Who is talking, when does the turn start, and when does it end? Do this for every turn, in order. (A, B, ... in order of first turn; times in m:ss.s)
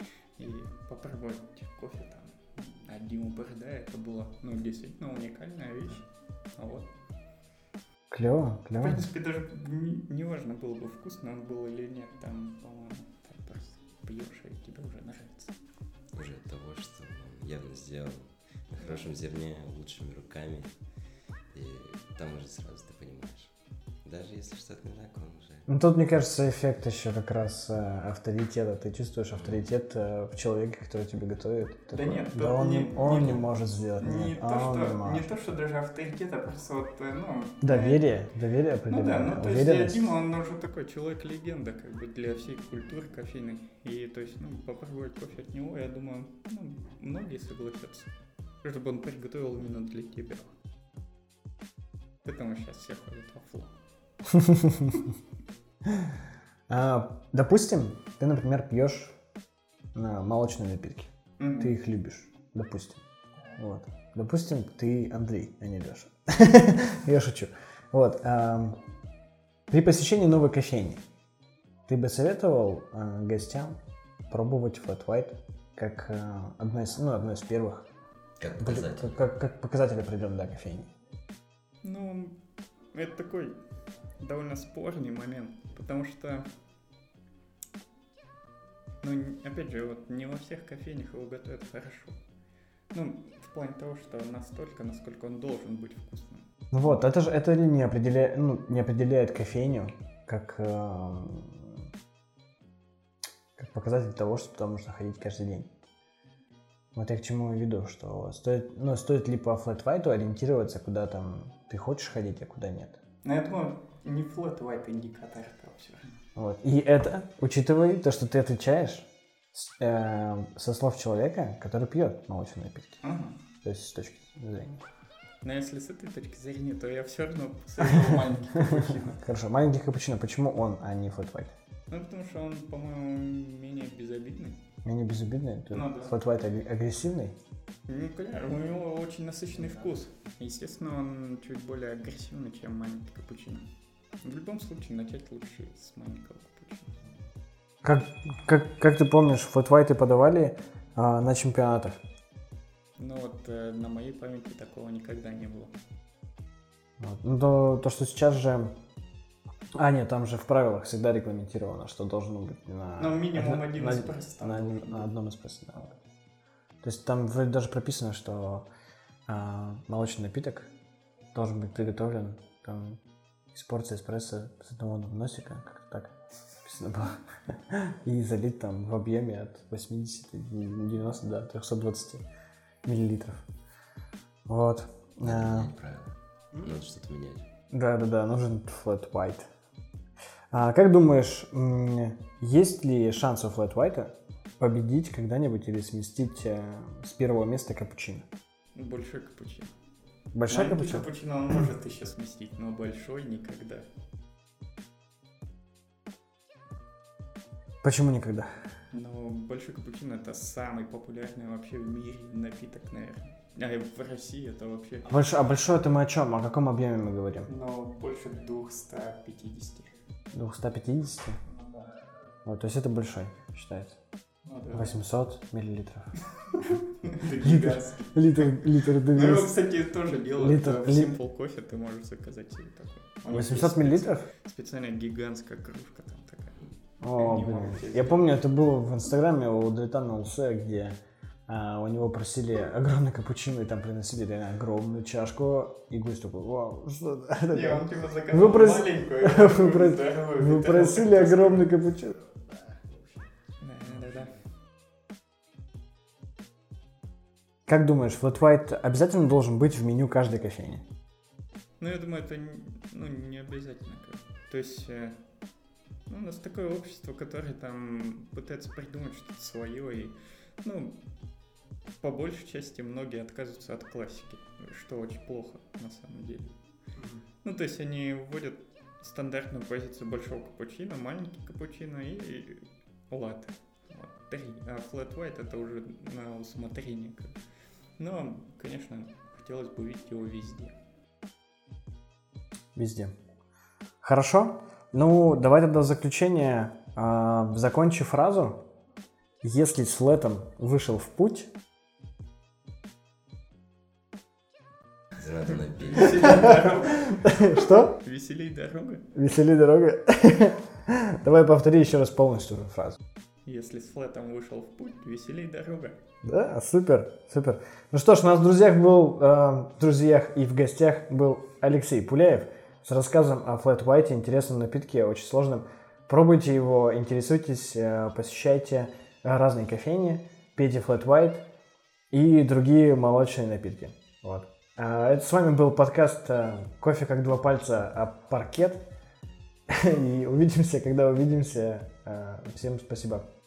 0:00.4-0:06.9 A
0:08.1-0:09.1 B
0:08.8-0:15.5 A
0:16.2-0:20.7 C
0:21.5-0:23.5 C
0:24.0-0:25.6 C
0:25.7-0:35.3 B
0:29.4-0:29.6 C
0:31.9-0:33.5 A
0:34.0-0:38.0 A
0:37.6-0:40.1 B
0:38.9-0:48.1 A
0:48.6-0:50.5 A
0:52.2-0:53.7 A
0:54.3-0:55.1 B
0:56.7-0:59.2 B
1:00.0-1:08.8 B
1:01.4-1:01.7 A
1:09.7-1:11.0 B
1:11.9-1:13.8 B
1:14.3-1:17.9 B
1:18.4-1:19.1 C
1:18.6-1:20.9 B
1:21.8-1:22.4 A
1:22.9-1:23.6 A
1:24.2-1:26.4 A
1:29.0-1:32.2 A
1:32.9-1:37.1 A
1:36.7-1:41.8 B
1:43.6-1:45.7 B
1:47.0-1:53.0 B
1:53.2-1:56.1 A
1:56.4-2:03.0 B
2:03.0-2:03.4 A
2:03.6-2:04.8 B
2:05.4-2:09.2 A
2:07.8-2:11.5 B
2:11.9-2:14.6 A
2:14.8-2:17.4 B
2:15.7-2:16.2 A
2:17.9-2:23.7 A
2:24.2-2:26.9 A
2:27.8-2:32.0 B
2:33.0-2:35.7 A
2:37.0-2:38.7 B
2:39.8-2:46.0 B
2:43.0-2:45.1 A
2:46.8-2:48.7 B
2:49.3-2:50.7 B
2:51.3-2:53.0 B
2:53.5-3:02.2 B
3:02.8-3:03.4 B
3:04.5-3:05.7 B
3:05.2-3:07.5 C
3:07.7-3:09.5 B
3:10.5-3:18.3 B
3:18.8-3:19.7 A
3:20.3-3:21.1 B
3:20.5-3:23.9 A
3:27.8-3:28.5 B
3:28.9-3:35.4 A
3:35.0-3:37.5 B
3:37.5-3:39.9 A
3:40.3-3:41.4 B
3:42.4-3:44.0 B
3:44.4-3:45.0 A
3:44.7-3:46.1 B
3:46.3-3:58.3 A
3:47.4-3:49.6 B
3:50.3-3:51.2 B
3:53.3-3:54.2 B
3:57.0-4:01.0 B
4:01.5-4:12.2 B
4:07.5-4:11.7 A
4:13.6-4:14.4 A
4:17.7-4:20.8 B
4:21.8-4:25.2 A
4:26.1-4:31.0 A
4:32.0-4:36.5 A
4:37.4-4:47.3 A
4:48.0-4:50.8 A
4:52.8-4:53.1 B
4:54.0-4:58.6 B
4:59.4-5:01.5 B
5:05.2-5:06.5 C
5:05.9-5:09.0 A
5:07.3-5:07.9 B
5:09.2-5:13.0 B
5:13.4-5:16.0 A
5:16.2-5:31.5 B
5:32.1-5:38.9 B
5:39.7-5:43.3 B